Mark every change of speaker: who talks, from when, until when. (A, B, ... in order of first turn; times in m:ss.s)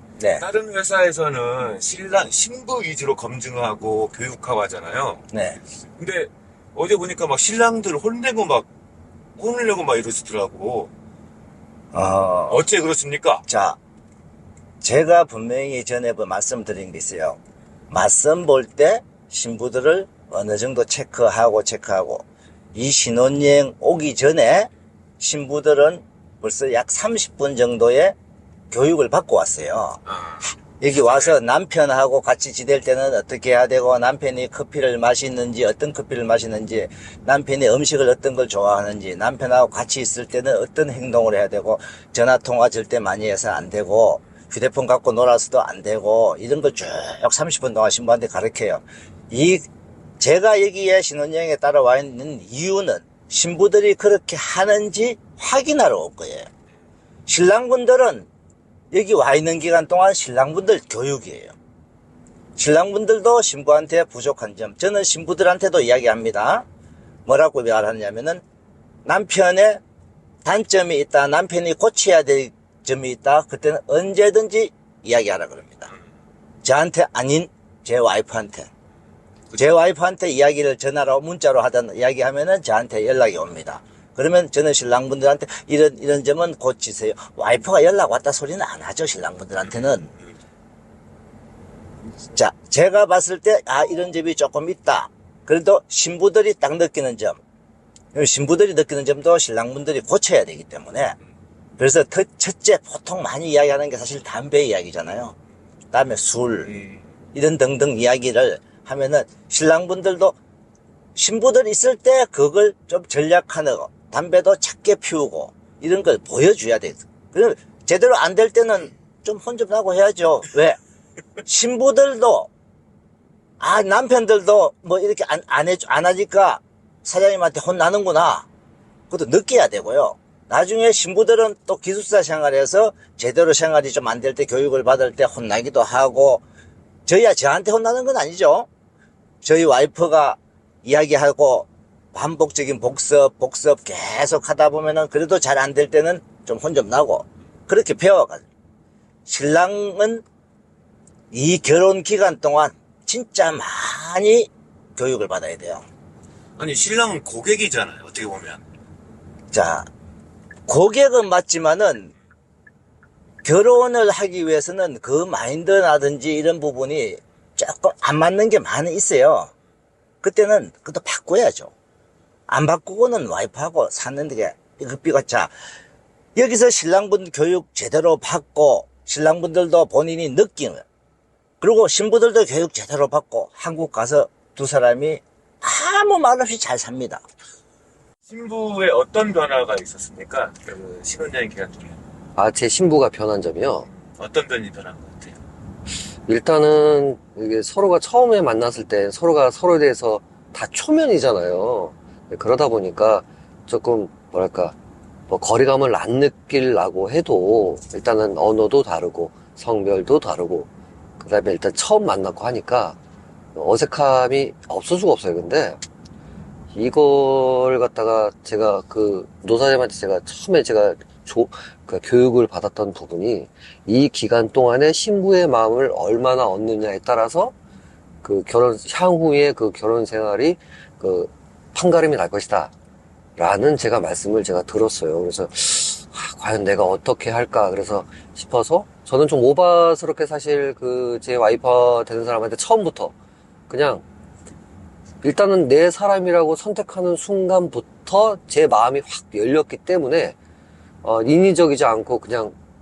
0:00.4-0:05.2 A
0:05.3-0:05.6 B
0:06.0-0:08.7 A
0:09.4-0:10.9 A
0:11.9-0:12.6 B
0:12.5-0:13.4 A
0:13.5-0:13.8 B
0:14.8-0:17.4 B
0:17.9-0:22.2 B
0:22.8-0:28.2 B
0:28.7-0:30.0 B
0:30.1-0:30.4 A
0:30.8-0:49.6 B
0:31.0-0:31.3 A
0:50.2-0:56.5 B
0:57.3-0:58.3 B
0:58.9-1:01.5 B
1:02.6-1:06.6 B
1:07.3-1:08.4 B
1:09.1-1:09.8 B
1:10.4-1:15.9 B
1:16.6-1:18.7 B
1:19.5-1:30.1 B
1:32.4-1:37.4 B
1:38.1-1:41.2 B
1:41.8-1:45.4 B
1:45.9-1:46.8 B
1:47.3-1:50.4 B
1:51.2-2:00.8 B
2:01.4-2:02.5 B
2:03.6-2:08.5 B
2:09.1-2:16.4 B
2:17.1-2:18.7 B
2:19.4-2:28.4 B
2:29.3-2:30.2 B
2:31.3-2:35.8 B
2:36.6-2:38.6 A
2:39.5-2:39.9 B
2:40.7-2:42.1 B
2:43.4-2:49.5 B
2:50.2-2:51.7 B
2:52.5-2:55.5 B
2:56.4-3:00.8 B
3:01.6-3:07.2 B
3:08.3-3:12.0 A
3:12.4-3:13.9 C
3:14.0-3:15.4 A
3:16.3-3:24.8 C
3:25.3-3:30.7 C
3:31.2-3:33.0 C
3:33.6-3:35.8 C
3:36.7-3:47.5 C
3:48.2-3:52.7 C
3:53.4-4:03.1 C
4:03.7-4:04.0 C
4:05.2-4:10.4 C
4:11.0-4:12.6 C